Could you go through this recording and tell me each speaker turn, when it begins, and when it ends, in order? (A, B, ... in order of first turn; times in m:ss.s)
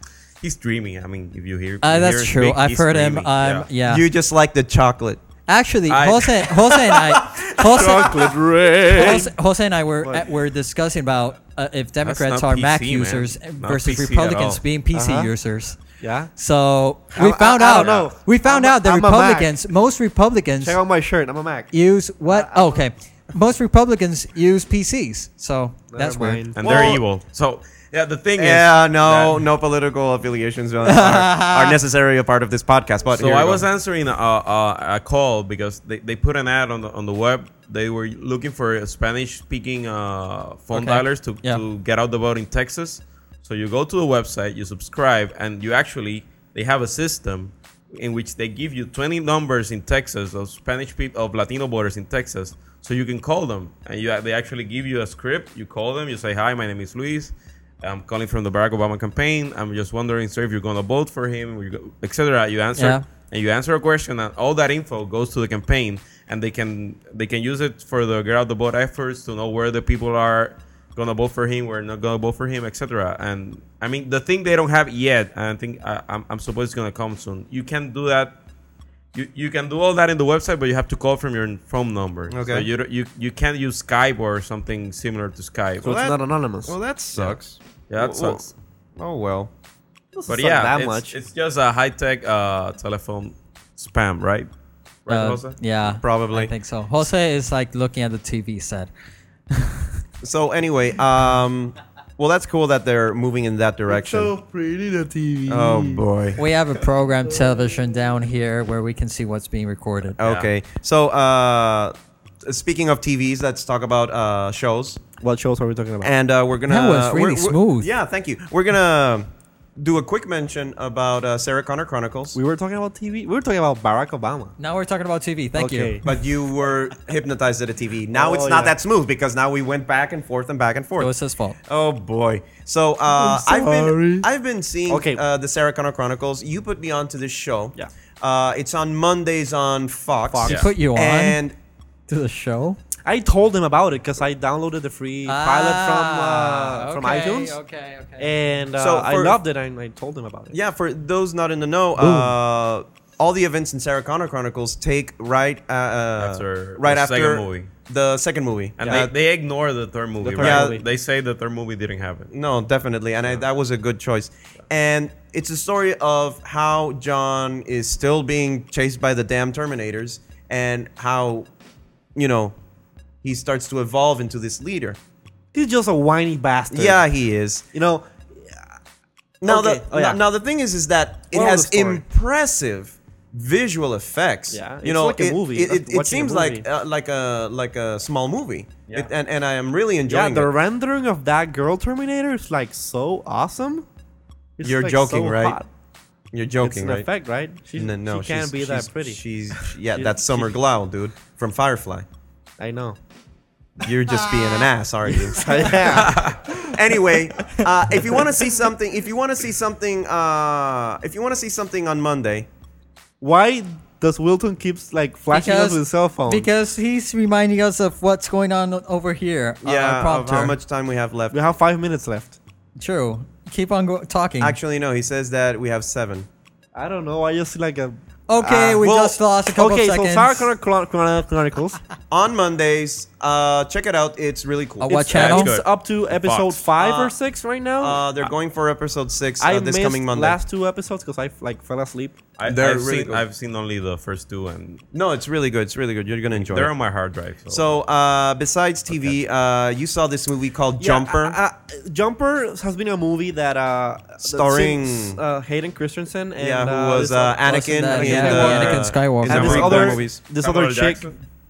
0:00.4-0:03.7 A
0:01.8-0:04.0 B
0:03.8-0:05.2 C
0:05.5-0:08.3 B
0:05.9-0:07.0 A
0:07.6-0:09.3 D
0:08.9-0:15.8 B
0:12.0-0:14.6 A
0:14.9-0:15.3 D
0:16.0-0:16.3 D
0:16.3-0:20.8 B
0:17.1-0:19.5 D
0:17.7-0:18.1 A
0:20.6-0:21.7 D
0:21.7-0:26.4 B
0:22.3-0:22.8 D
0:25.9-0:27.0 D
0:26.5-0:29.4 A
0:26.6-0:27.0 C
0:28.4-0:33.7 C
0:30.8-0:31.8 B
0:33.2-1:18.3 A
0:40.7-0:41.6 B
1:02.8-1:03.0 B
1:19.1-1:26.0 A
1:22.3-1:22.7 C
1:25.8-1:26.8 D
1:25.8-1:29.5 C
1:27.9-1:28.5 A
1:30.1-1:31.1 D
1:30.3-1:34.5 A
1:35.0-1:35.6 A
1:35.1-1:38.9 B
1:35.8-1:36.5 C
1:39.5-1:39.9 B
1:40.2-1:44.3 C
1:43.9-1:46.0 D
1:45.5-1:46.4 C
1:46.4-1:50.2 B
1:50.2-1:50.5 A
1:50.2-1:51.9 C
1:52.4-1:55.0 C
1:55.2-1:56.1 D
1:56.0-1:59.3 C
1:56.7-1:57.9 B
1:59.8-2:02.4 C
2:02.3-2:04.5 D
2:04.6-2:06.0 B
2:05.6-2:06.1 D
2:06.0-2:11.1 C
2:08.1-2:08.7 D
2:11.0-2:11.6 B
2:11.7-2:21.6 C
2:13.1-2:14.3 D
2:14.9-2:15.2 D
2:20.3-2:20.6 D
2:20.5-2:21.4 B
2:22.1-2:22.8 B
2:23.0-2:27.6 D
2:25.2-2:28.3 B
2:28.2-2:30.5 D
2:28.8-2:29.4 C
2:30.5-2:39.1 C
2:32.0-2:32.3 D
2:36.2-2:37.7 A
2:38.8-2:42.3 A
2:38.8-2:39.1 D
2:40.2-2:40.8 D
2:40.4-2:40.8 C
2:42.3-2:51.5 C
2:52.1-2:52.6 C
2:53.2-2:55.0 C
2:55.5-2:57.0 D
2:56.7-2:57.6 C
2:57.7-2:58.6 D
2:59.4-3:10.5 C
2:59.4-3:00.2 D
3:01.3-3:02.0 D
3:04.5-3:06.6 D
3:10.1-3:13.8 D
3:14.6-3:15.7 D
3:14.6-3:15.6 C
3:16.3-3:17.1 C
3:16.6-3:20.5 D
3:17.7-3:22.0 C
3:22.6-3:23.0 D
3:23.8-3:32.5 C
3:24.1-3:24.7 B
3:25.1-3:26.7 D
3:25.4-3:25.8 B
3:25.9-3:26.4 A
3:33.2-3:36.5 D
3:35.3-3:40.6 B
3:39.6-3:41.4 C
3:41.3-3:42.4 D
3:42.8-3:44.6 B
3:44.4-3:46.3 C
3:46.7-3:48.8 D
3:48.3-3:50.5 B
3:48.5-3:49.2 C
3:49.6-3:51.8 D
3:52.1-3:55.2 C
3:54.8-3:55.5 B
3:54.9-3:58.0 D
3:55.1-3:56.7 A
3:56.8-3:57.1 C
3:57.8-4:00.4 C
3:59.4-4:02.2 D
4:02.4-4:04.8 A
4:02.4-4:03.2 C
4:04.9-4:06.7 C
4:06.3-4:07.7 A
4:07.5-4:11.4 C
4:10.8-4:21.0 D
4:14.2-4:15.2 C
4:16.4-4:20.2 C
4:17.4-4:19.9 B
4:19.3-4:21.2 A